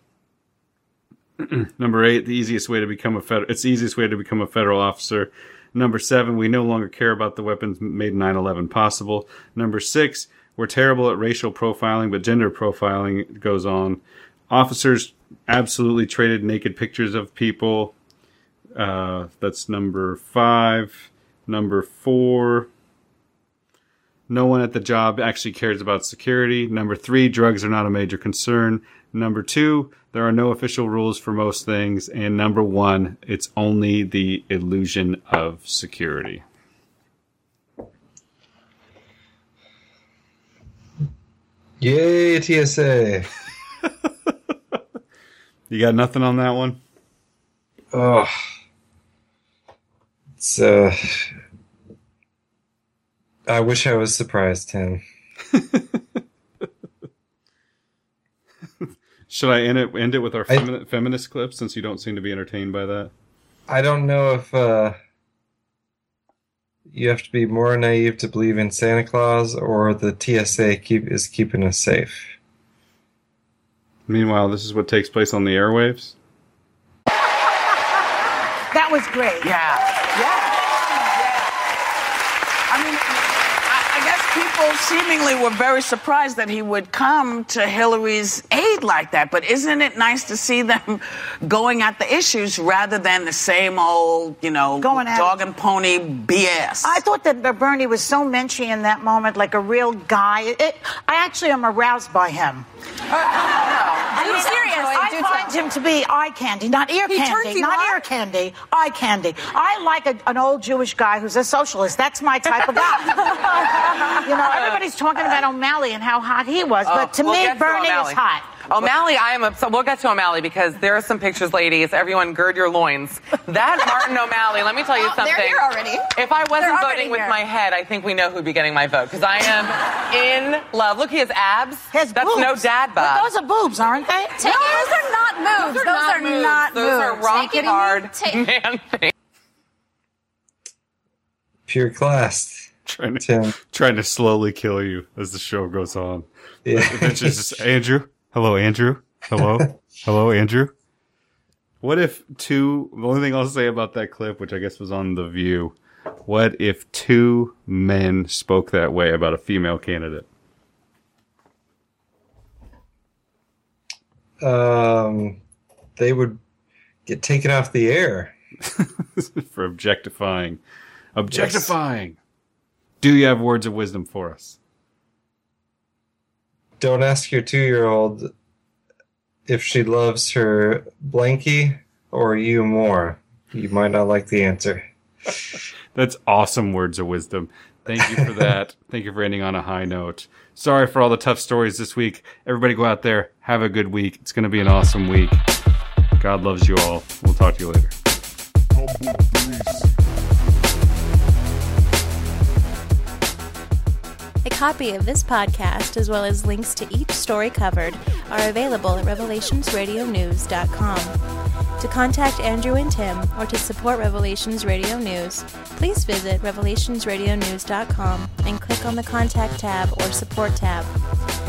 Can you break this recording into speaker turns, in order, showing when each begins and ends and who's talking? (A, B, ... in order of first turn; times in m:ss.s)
0:01.4-0:17.9 A
0:18.8-0:22.7 A
0:24.3-0:36.4 A
0:41.8-0:43.3 B
0:45.7-0:46.8 A
0:47.9-0:48.3 B
0:50.4-0:51.3 B
0:53.5-0:55.0 B
0:55.5-0:56.0 A
0:58.8-1:03.1 A
1:03.7-1:05.0 B
1:06.9-1:12.4 B
1:14.1-1:16.2 A
1:18.7-1:19.5 C
1:19.4-1:19.8 D
1:22.7-1:23.0 D
1:23.7-1:37.0 D
1:34.8-1:35.4 C
1:36.8-1:42.7 C
1:44.0-1:53.5 C
1:44.1-1:45.6 E
1:44.2-1:45.1 F
1:47.1-1:48.0 E
1:47.2-1:47.7 F
1:54.1-1:58.6 C
1:54.3-1:55.4 F
1:56.8-2:13.3 F
2:04.9-2:07.4 E
2:11.9-2:14.9 C
2:14.4-2:18.5 E
2:15.6-2:19.1 F
2:15.7-2:17.0 C
2:21.7-2:22.7 B
2:22.9-2:30.7 A
2:23.2-2:23.6 B
2:26.7-2:27.5 B
2:31.8-2:40.3 A
2:44.4-2:45.4 B
2:46.0-2:46.4 B
2:47.1-2:48.3 B
2:48.7-2:50.6 A
2:51.2-2:52.2 A
2:51.3-2:51.7 B
2:53.0-2:54.6 A
2:56.8-2:58.3 B
2:59.5-3:04.8 B
3:05.9-3:15.4 A
3:08.1-3:08.3 B
3:16.2-3:17.9 A
3:24.4-3:31.2 G
3:31.8-3:41.0 G